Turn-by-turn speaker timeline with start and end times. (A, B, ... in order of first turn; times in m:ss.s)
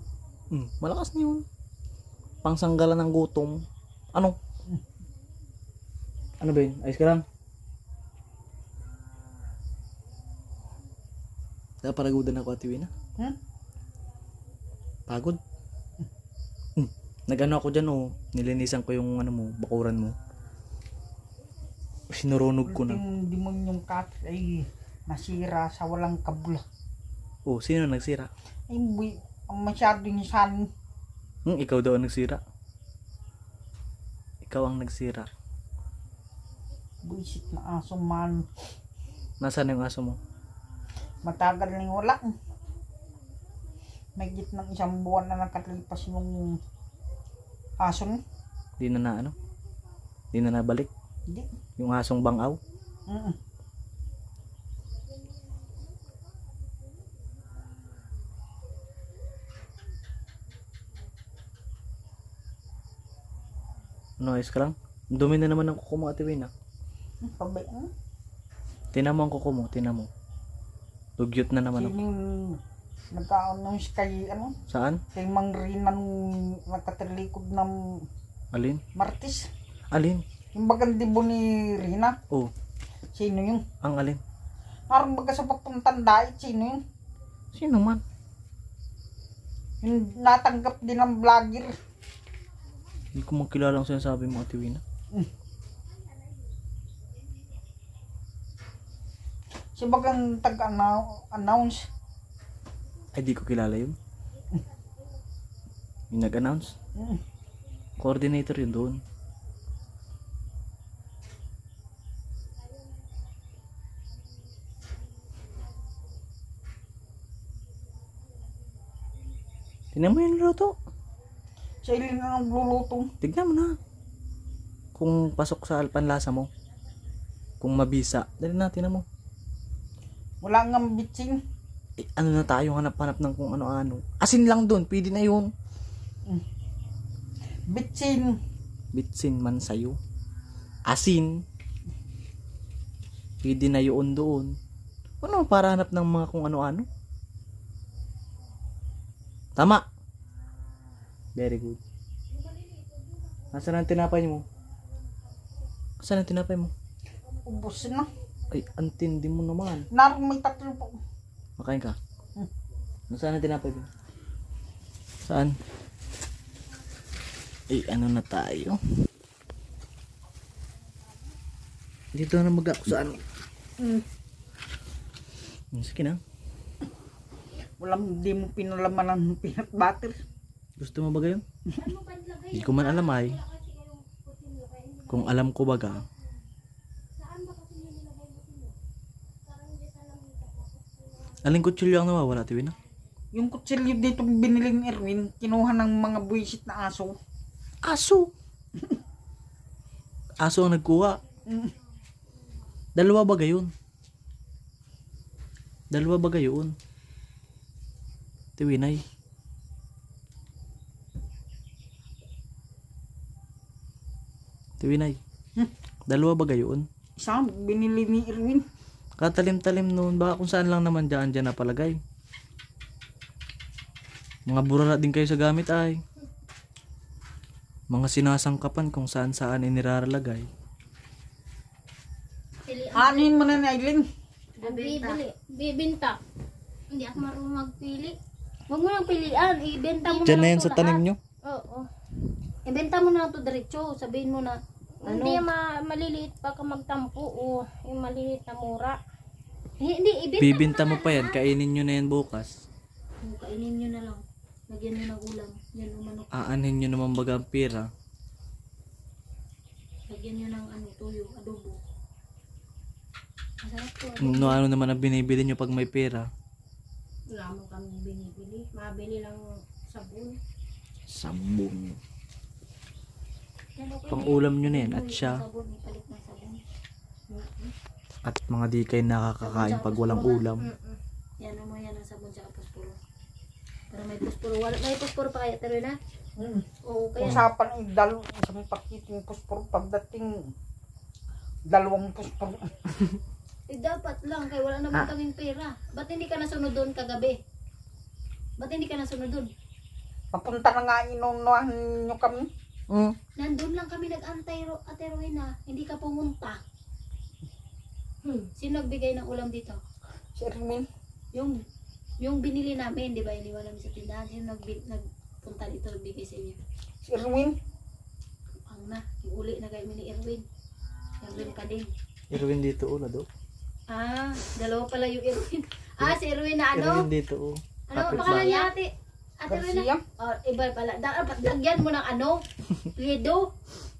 0:00.5-0:01.4 A
0:02.4-0:04.4 A
0:06.4-0:07.2 A
0:11.8-0:12.9 A
0:15.1-0:15.4 A
0:16.8-0:20.2 A
0:22.1-0:23.0 A
0:22.7-0:26.6 B
0:27.4-0:28.3 A
0:28.7-0:30.7 B
0:31.4-0:32.4 A
0:34.4-0:35.3 A
0:37.0-0:38.4 B
0:39.4-0:40.2 A
0:41.2-0:42.3 B
0:44.2-0:46.6 B
0:47.8-0:48.2 B
0:48.8-0:49.3 A
0:50.3-0:50.9 A
0:51.8-0:52.6 A
0:53.1-0:53.4 B
1:04.2-1:06.5 A
1:07.2-1:07.9 B
1:08.9-1:10.1 A
1:11.2-1:11.9 A
1:11.8-1:12.6 B
1:13.1-1:14.5 B
1:14.7-1:15.0 A
1:15.1-1:18.0 B
1:18.5-1:18.8 A
1:18.9-1:19.5 B
1:19.9-1:20.2 A
1:20.5-1:22.2 B
1:23.1-1:23.6 B
1:23.8-1:24.2 A
1:24.9-1:26.8 B
1:27.5-1:28.0 A
1:29.8-1:31.7 B
1:33.1-1:34.8 A
1:39.8-1:41.9 B
1:43.1-1:44.0 A
1:46.1-1:46.7 A
1:47.0-1:47.2 B
1:48.0-1:49.0 A
1:59.9-2:00.8 A
2:01.8-2:03.1 B
2:03.2-2:03.8 A
2:04.9-2:06.5 A
2:07.6-2:09.0 A
2:10.4-2:11.4 B
2:12.0-2:15.5 A
2:17.7-2:18.4 B
2:18.9-2:20.0 A
2:20.9-2:21.4 A
2:23.4-2:24.6 A
2:25.2-2:26.9 A
2:29.6-2:29.8 A
2:31.4-2:31.8 A
2:33.5-2:34.4 A
2:36.0-2:36.7 A
2:37.4-2:38.1 B
2:38.5-2:39.9 A
2:39.9-2:41.0 B
2:41.6-2:42.0 A
2:43.1-2:43.9 A
2:45.2-2:45.6 A
2:47.7-2:48.8 A
2:52.1-2:53.2 A
2:53.8-2:54.0 B
2:55.7-2:56.2 A
2:57.8-3:00.2 B
3:00.8-3:01.4 A
3:01.8-3:05.4 C
3:02.5-3:03.4 A
3:05.1-3:06.0 A
3:07.2-3:08.7 C
3:09.4-3:11.3 C
3:11.4-3:12.8 A
3:13.3-3:17.2 B
3:17.8-3:18.3 A
3:20.4-3:21.2 A
3:21.4-3:21.7 B
3:23.0-3:23.7 A
3:25.9-3:26.7 A
3:28.6-3:29.0 A
3:34.8-3:35.2 A
3:36.1-3:36.9 A
3:37.2-3:38.6 B
3:39.2-3:42.0 A
3:44.5-3:46.0 A
3:47.9-3:50.5 A
3:52.7-3:53.4 C
3:52.9-3:54.0 B
3:54.6-3:55.2 D
3:54.6-3:56.2 C
3:56.9-3:58.1 C
3:57.0-3:57.3 D
3:58.7-4:01.0 D
4:00.0-4:00.5 C
4:00.2-4:01.2 A
4:01.4-4:01.9 C
4:02.6-4:05.4 D
4:05.0-4:09.0 C
4:09.8-4:11.4 D
4:10.4-4:12.6 A
4:13.2-4:16.4 D
4:16.3-4:17.9 A
4:20.1-4:21.8 D
4:23.6-4:24.6 D
4:24.2-4:26.3 A
4:27.3-4:30.4 C
4:31.1-4:32.0 A
4:33.8-4:36.6 D
4:34.1-4:35.4 A
4:37.3-4:37.7 C
4:38.2-4:40.7 A
4:39.4-4:40.4 D
4:40.6-4:41.0 C
4:41.4-4:43.0 D
4:43.9-4:46.0 D
4:46.4-4:46.6 B
4:46.8-4:47.4 D
4:47.2-4:50.5 B
4:51.7-4:53.2 B
4:53.7-4:57.4 D
4:58.6-4:59.5 D
5:00.3-5:02.5 B
5:02.9-5:03.2 A
5:03.4-5:06.6 D
5:08.2-5:08.5 C
5:08.6-5:09.8 D
5:10.4-5:10.8 B
5:11.3-5:11.6 D
5:12.2-5:16.6 D
5:17.0-5:17.6 B
5:18.7-5:20.4 D
5:21.2-5:21.9 D
5:22.3-5:23.3 A
5:23.9-5:27.1 D
5:26.7-5:28.6 A
5:27.9-5:32.4 D
5:28.0-5:28.7 C
5:29.5-5:30.0 B
5:32.9-5:33.5 D